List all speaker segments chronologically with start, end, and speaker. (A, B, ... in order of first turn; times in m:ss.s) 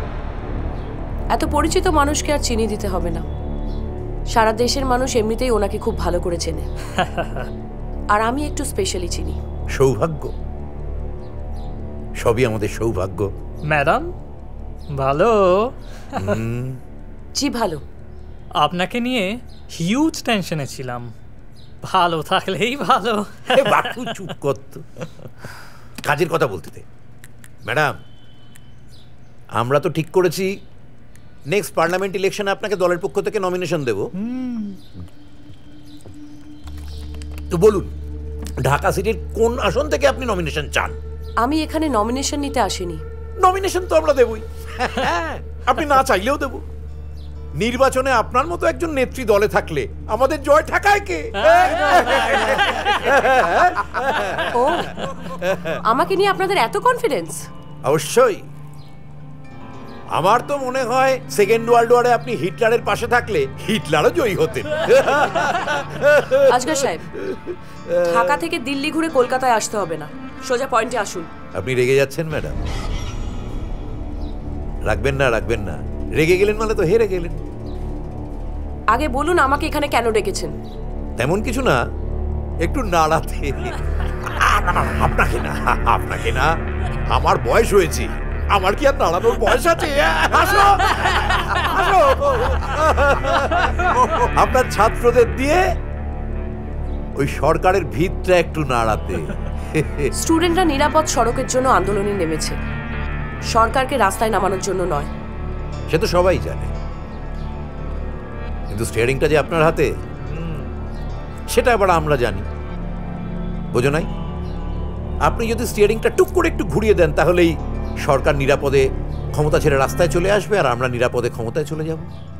0:01.3-0:03.3 A
0:04.3-0:06.6 A
0:08.1-0:09.4 A
0:09.7-0:10.3 B
0:12.2-0:13.3 B
0:13.7-0:14.1 C
0:15.0-0:15.5 C
0:16.2-0:16.8 B
0:17.4-0:17.8 A
0:18.6-0:21.1 C
0:21.9-0:24.2 C
0:23.5-0:24.8 B
0:26.0-0:26.8 B
0:27.6-0:27.9 B
0:29.6-0:30.5 B
0:31.5-0:34.6 B
0:37.5-0:37.9 B
0:38.6-0:41.0 B
0:41.4-0:43.0 A
0:43.4-0:46.6 B
0:47.6-0:55.8 B
0:51.6-0:52.3 C
0:54.5-0:54.9 A
0:55.8-0:57.4 A
0:57.8-0:58.4 B
1:00.1-1:08.4 B
1:06.5-1:07.0 A
1:08.1-1:11.3 A
1:11.6-1:12.6 B
1:14.8-1:17.4 B
1:18.9-1:20.5 A
1:21.2-1:21.8 B
1:22.6-1:23.8 B
1:24.3-1:26.5 B
1:27.1-1:33.7 B
1:34.3-1:35.7 B
1:37.2-1:40.1 B
1:40.2-1:42.6 A
1:43.5-1:45.1 A
1:45.9-1:46.7 B
1:48.7-1:49.9 B
1:50.3-1:50.6 C
1:51.5-1:52.4 B
1:53.7-1:54.1 B
1:55.2-2:02.1 B